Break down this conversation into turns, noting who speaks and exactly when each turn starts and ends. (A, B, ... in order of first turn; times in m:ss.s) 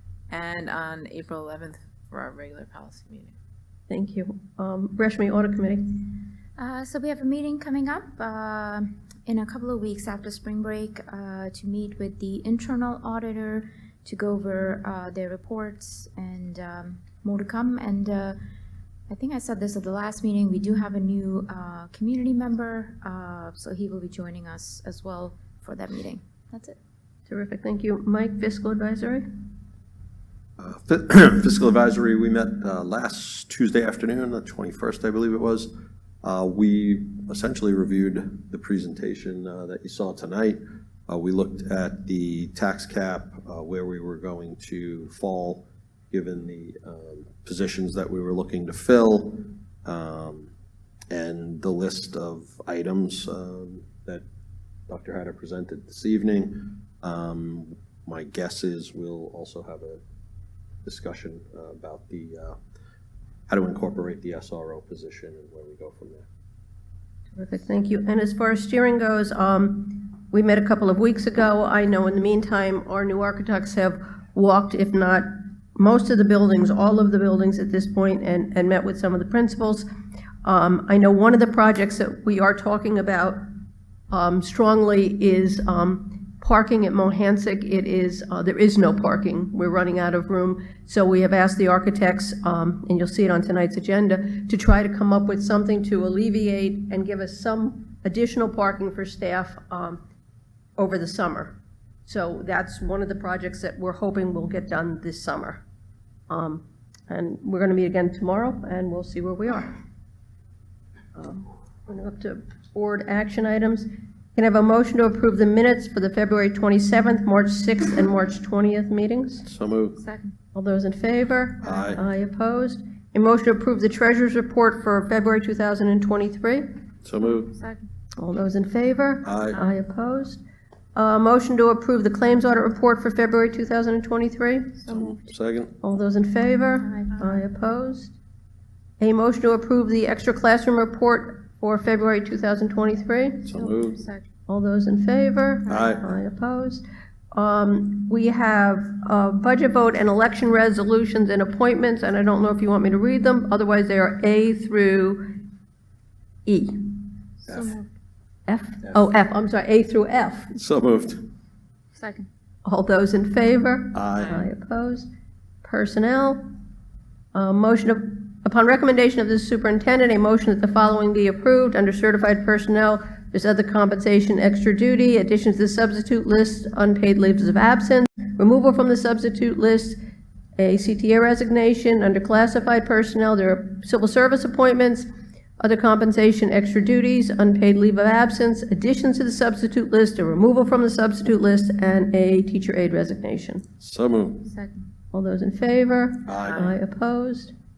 0:00.3-0:03.3 A
0:03.9-0:06.0 B
0:06.6-0:18.4 C
0:19.1-0:26.8 C
0:27.3-0:29.2 B
0:30.6-0:35.7 D
0:36.2-0:50.5 D
0:51.1-0:54.2 D
0:54.9-1:00.0 D
1:00.8-1:02.6 D
1:03.5-1:06.2 D
1:07.4-1:19.9 B
1:20.4-1:23.4 B
1:24.1-1:40.0 B
1:40.8-1:45.6 B
1:46.3-1:49.7 B
1:51.2-1:59.5 B
1:59.5-2:00.0 D
2:00.0-2:00.4 C
2:00.5-2:06.6 B
2:01.6-2:02.0 D
2:07.0-2:07.5 D
2:07.2-2:07.9 C
2:08.2-2:10.4 B
2:09.2-2:09.6 D
2:11.0-2:14.8 B
2:14.8-2:15.3 C
2:14.9-2:15.7 D
2:15.8-2:18.1 B
2:16.8-2:17.4 C
2:19.0-2:23.5 B
2:23.4-2:24.0 D
2:23.5-2:24.2 C
2:24.5-2:35.3 B
2:25.7-2:26.0 D
2:36.5-2:37.0 B
2:37.4-2:37.9 C
2:38.5-2:40.5 B
2:40.6-2:41.2 D
2:42.0-2:42.3 C
2:42.6-2:45.1 B
2:43.9-2:44.4 D
2:45.6-2:46.4 B
2:47.3-3:00.0 B
3:00.6-3:05.1 B
3:05.6-3:13.6 B
3:13.8-3:14.5 D
3:14.4-3:14.9 C
3:15.1-3:17.5 B
3:16.3-3:16.7 D